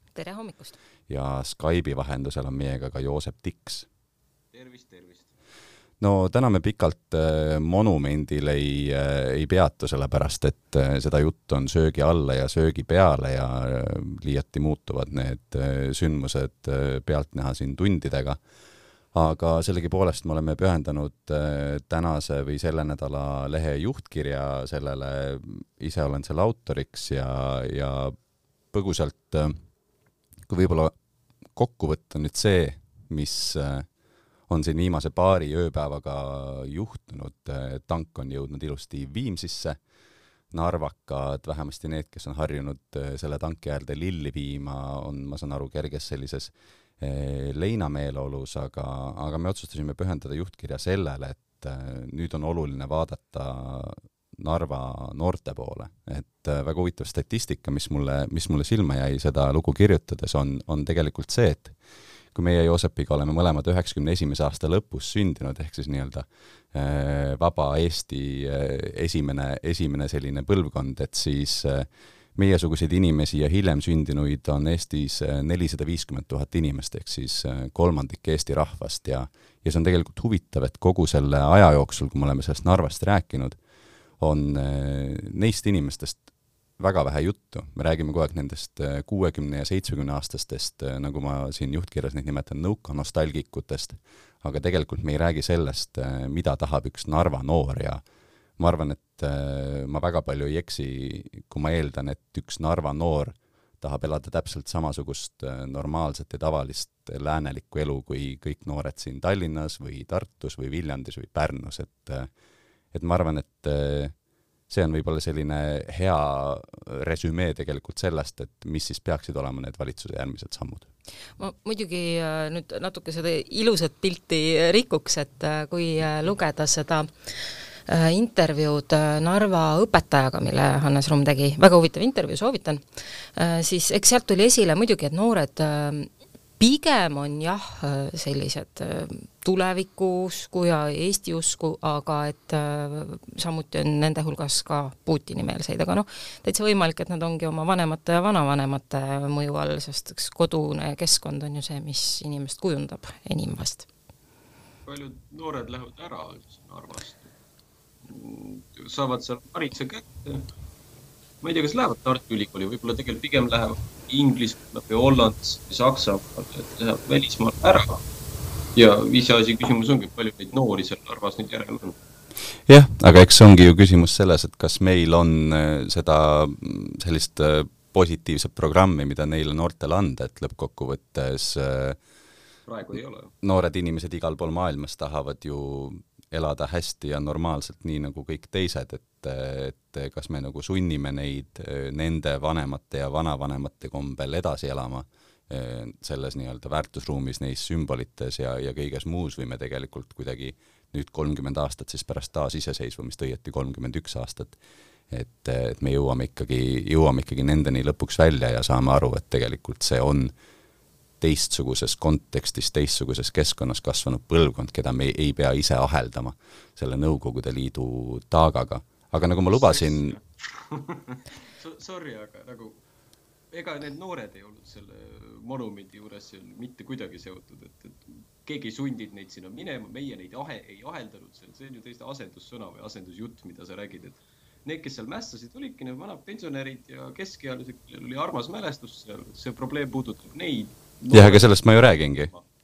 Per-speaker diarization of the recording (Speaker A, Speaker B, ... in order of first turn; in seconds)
Speaker A: 0.1-0.8, 121.4-127.1, 127.9-132.8, 133.3-153.9
Speaker B: 1.1-3.9, 6.0-18.4, 19.1-28.1, 28.7-29.6, 30.5-30.9, 31.6-33.9, 34.5-39.8, 40.5-61.7, 62.3-83.6, 84.2-86.2, 86.8-98.0, 98.6-112.3, 112.9-114.1, 114.7-120.9, 172.7-182.0, 183.4-204.6, 205.1-210.3, 211.2-220.2, 241.1-242.3
Speaker C: 4.5-5.3, 154.8-157.3, 158.0-160.5, 161.4-168.0, 168.7-172.0, 182.7-183.3, 219.4-222.8, 223.5-242.4